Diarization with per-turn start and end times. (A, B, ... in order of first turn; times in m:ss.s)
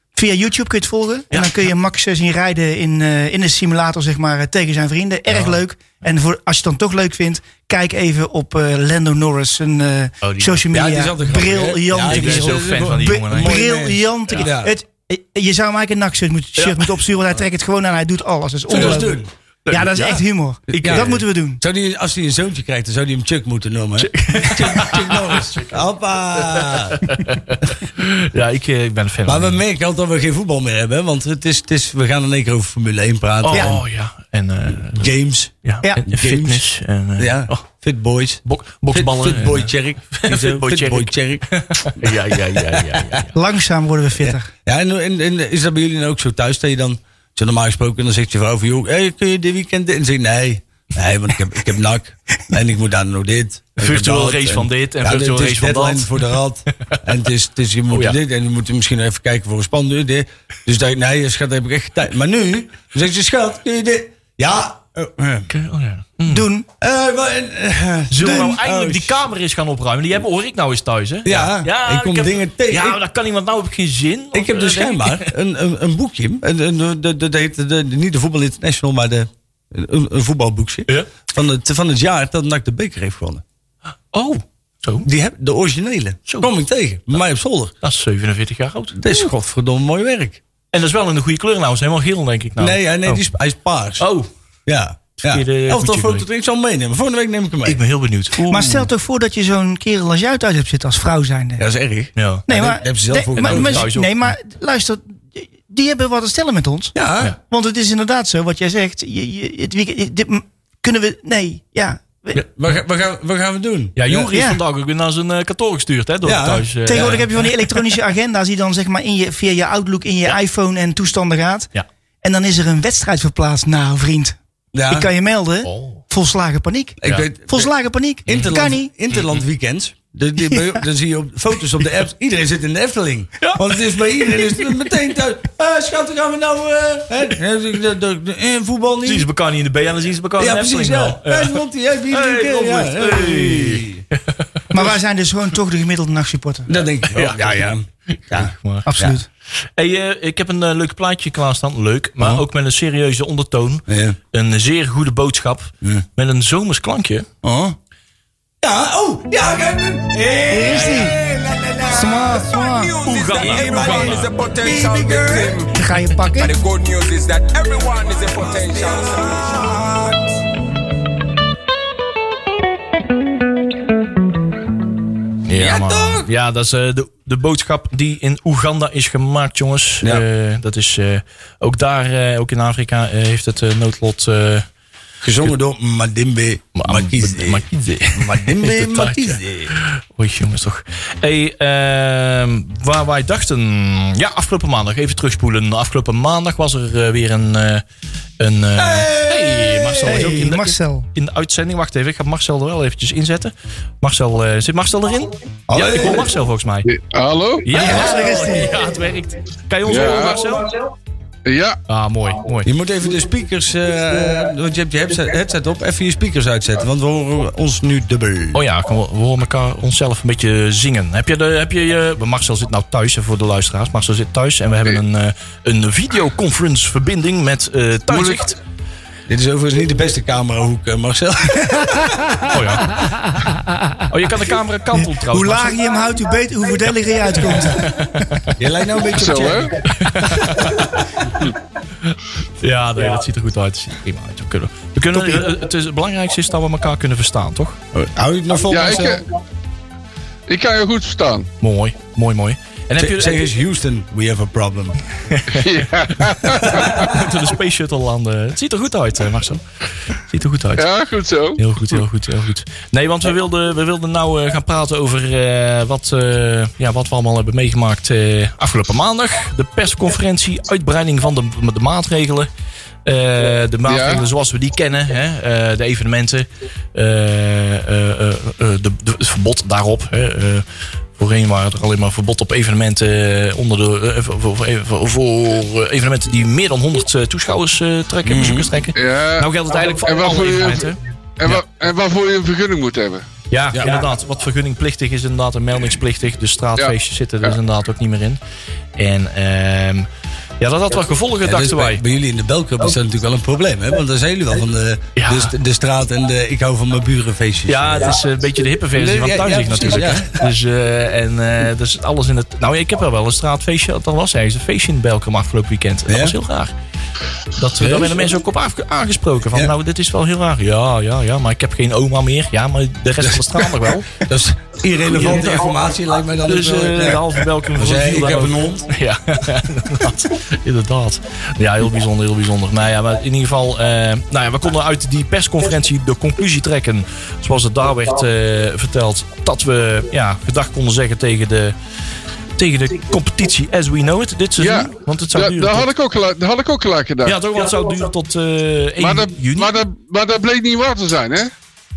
0:00.1-0:21.6 A
0:01.3-0:01.6 B
0:05.3-0:05.6 B
0:10.2-0:10.6 B
0:10.7-0:14.7 C
0:12.0-0:13.6 B
0:16.6-0:17.0 B
0:18.7-0:19.3 C
0:18.7-0:19.1 B
0:19.7-0:20.2 B
0:20.7-0:27.0 C
0:20.7-0:21.2 B
0:24.0-0:25.8 B
0:26.4-0:29.6 B
0:29.2-0:33.8 C
0:33.4-0:37.6 B
0:33.5-0:33.8 A
0:34.9-0:35.5 C
0:36.1-0:36.6 C
0:37.2-0:38.4 C
0:38.4-0:43.3 B
0:38.9-0:43.2 C
0:43.3-0:44.5 A
0:44.2-1:05.5 C
0:53.8-0:56.2 B
0:57.9-0:58.2 B
1:05.5-1:06.5 B
1:06.2-1:06.6 A
1:06.8-1:09.2 C
1:08.1-1:15.3 B
1:08.2-1:08.5 A
1:11.2-1:13.0 C
1:14.3-1:23.4 C
1:24.1-1:25.1 B
1:25.0-1:27.7 C
1:27.8-1:29.1 B
1:29.0-1:30.4 C
1:30.7-1:33.2 B
1:32.6-1:34.1 C
1:34.0-1:34.3 B
1:34.6-1:37.8 C
1:35.2-1:36.2 B
1:37.6-1:38.8 B
1:38.4-1:41.6 A
1:41.6-1:43.9 C
1:42.2-1:42.5 B
1:42.5-1:46.9 A
1:43.4-1:44.3 B
1:46.9-1:47.3 C
1:47.5-1:52.4 A
1:52.5-1:54.3 C
1:54.0-1:57.9 B
1:54.3-1:54.6 A
1:56.2-1:57.2 C
1:56.8-2:01.7 A
2:02.2-2:04.4 A
2:04.7-2:05.1 C
2:04.9-2:08.9 A
2:05.6-2:06.0 B
2:07.0-2:07.7 C
2:08.2-2:19.3 C
2:09.1-2:09.4 B
2:13.4-2:14.7 B
2:19.0-2:24.9 B
2:20.4-2:24.0 C
2:24.7-2:26.7 A
2:26.7-2:29.1 C
2:27.1-2:28.9 B
2:28.8-2:29.3 A
2:29.8-2:37.3 B
2:33.9-2:34.2 C
2:37.4-2:37.7 C
2:38.6-2:42.6 C
2:40.5-2:41.2 A
2:40.6-2:41.0 B
2:41.8-2:43.0 A
2:42.8-2:45.6 D
2:43.0-2:44.3 B
2:43.4-2:45.7 C
2:45.7-2:46.6 A
2:46.5-2:49.1 D
2:48.4-2:50.3 C
2:55.5-3:04.6 B
2:55.6-2:56.3 C
3:05.2-3:09.7 C
3:06.8-3:17.8 B
3:18.4-3:26.9 B
3:18.8-3:20.5 C
3:20.0-3:21.1 A
3:25.7-3:26.3 C
3:26.8-3:27.7 E
3:27.6-3:30.7 B
3:27.8-3:29.0 A
3:27.8-3:28.1 C
3:29.8-3:30.5 E
3:31.4-3:31.8 E
3:31.9-3:32.7 B
3:32.6-3:38.6 C
3:38.5-3:48.6 B
3:48.1-3:48.4 E
3:49.3-3:52.6 C
3:52.4-3:53.1 B
3:54.1-3:55.8 B
3:55.0-3:58.0 A
3:57.6-3:58.6 B
3:58.6-3:59.7 C
3:59.1-3:59.7 E
3:59.8-4:01.2 B
4:02.0-4:07.8 B
4:05.2-4:05.4 A
4:07.9-4:09.2 C
4:08.7-4:09.2 E
4:10.5-4:11.5 E
4:11.6-4:13.4 B
4:13.0-4:15.0 C
4:15.3-4:20.9 B
4:15.5-4:17.0 E
4:20.8-4:22.0 E
4:21.6-4:32.5 B
4:33.0-4:40.6 B
4:33.9-4:34.2 E
4:41.2-4:51.6 B
4:48.2-4:48.7 C
4:48.9-4:53.2 E
4:53.5-4:58.4 B
4:53.7-4:54.0 C
4:59.0-5:00.1 B
5:00.6-5:02.0 B
5:01.4-5:08.2 C
5:05.2-5:05.5 B
5:07.7-5:16.7 B
5:08.9-5:10.4 C
5:16.1-5:16.3 C
5:17.6-5:24.2 B
5:17.8-5:18.2 C
5:23.2-5:23.6 C
5:24.2-5:28.9 C
5:25.1-5:25.5 B
5:26.5-5:41.7 B
5:42.6-5:45.9 B
5:44.6-5:47.4 E
5:47.2-5:49.8 B
5:49.0-5:51.5 E